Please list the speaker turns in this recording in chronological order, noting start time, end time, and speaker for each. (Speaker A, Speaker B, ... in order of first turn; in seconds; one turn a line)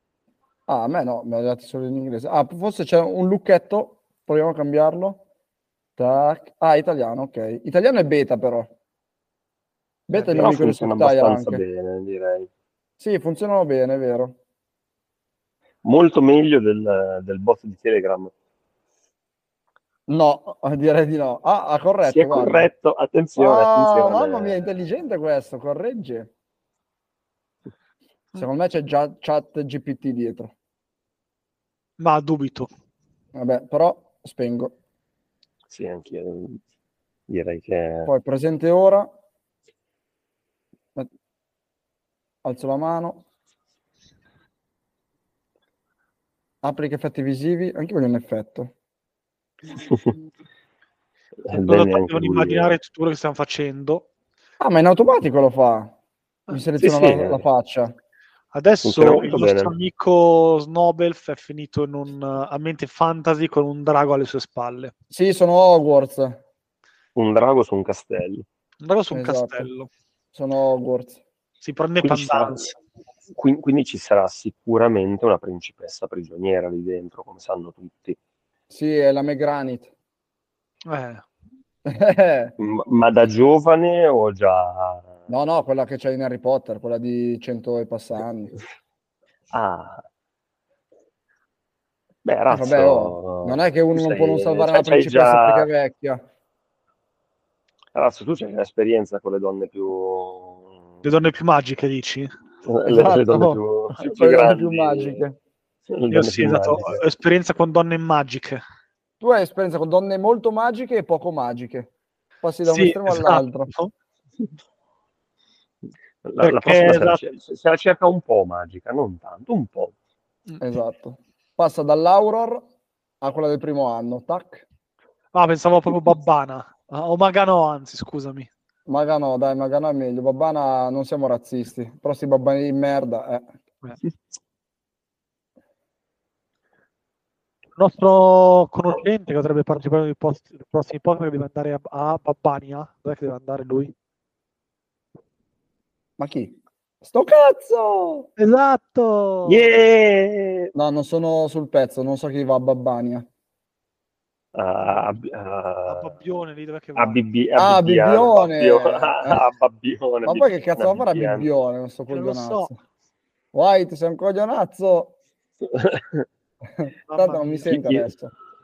Speaker A: 0.7-5.2
Speaker A: 6.0-8.7
Speaker A: 10.1-11.6
Speaker B: 10.2-12.5
Speaker A: 13.0-14.4
Speaker B: 15.8-18.3
Speaker A: 20.1-22.7
Speaker B: 22.0-24.7
Speaker A: 23.4-26.3
Speaker A: 28.4-30.5
Speaker C: 32.0-32.7
Speaker A: 33.3-34.7
Speaker B: 35.7-36.6
Speaker B: 37.3-38.1
Speaker A: 38.1-39.1
Speaker A: 42.4-43.2
Speaker A: 46.6-48.7
Speaker B: 49.8-50.1
Speaker B: 51.5-52.8
Speaker C: 51.5-54.1
Speaker A: 54.6-55.9
Speaker A: 56.5-58.0
Speaker B: 56.8-57.5
Speaker C: 58.5-64.9
Speaker B: 58.8-59.7
Speaker A: 65.1-66.4
Speaker B: 67.2-68.5
Speaker C: 68.8-69.9
Speaker A: 69.1-69.7
Speaker A: 70.3-71.2
Speaker C: 71.6-72.7
Speaker B: 72.0-72.7
Speaker B: 73.3-78.2
Speaker A: 78.7-79.9
Speaker C: 80.9-81.2
Speaker A: 81.8-82.5
Speaker B: 82.6-85.2
Speaker A: 85.3-88.5
Speaker B: 89.5-90.0
Speaker B: 92.2-95.7
Speaker A: 92.5-96.2
Speaker B: 97.9-100.7
Speaker C: 101.0-102.3
Speaker B: 102.7-105.2
Speaker A: 102.9-105.4
Speaker B: 105.9-107.0
Speaker C: 106.1-108.6
Speaker A: 109.2-111.9
Speaker A: 112.4-113.7
Speaker C: 112.7-113.9
Speaker B: 116.2-119.9
Speaker C: 116.4-117.2
Speaker A: 120.6-122.7
Speaker A: 123.2-124.7
Speaker C: 125.3-128.5
Speaker A: 128.9-133.5
Speaker C: 137.8-143.9
Speaker A: 146.2-148.3
Speaker C: 148.4-149.7
Speaker B: 149.5-150.7
Speaker A: 150.8-153.3
Speaker B: 154.5-156.1
Speaker C: 155.9-157.2
Speaker B: 157.0-161.5
Speaker A: 157.6-159.4
Speaker A: 160.2-162.8
Speaker C: 162.1-162.7
Speaker A: 163.5-165.2
Speaker B: 165.6-166.2
Speaker A: 166.8-168.3
Speaker C: 167.1-167.8
Speaker B: 167.7-168.1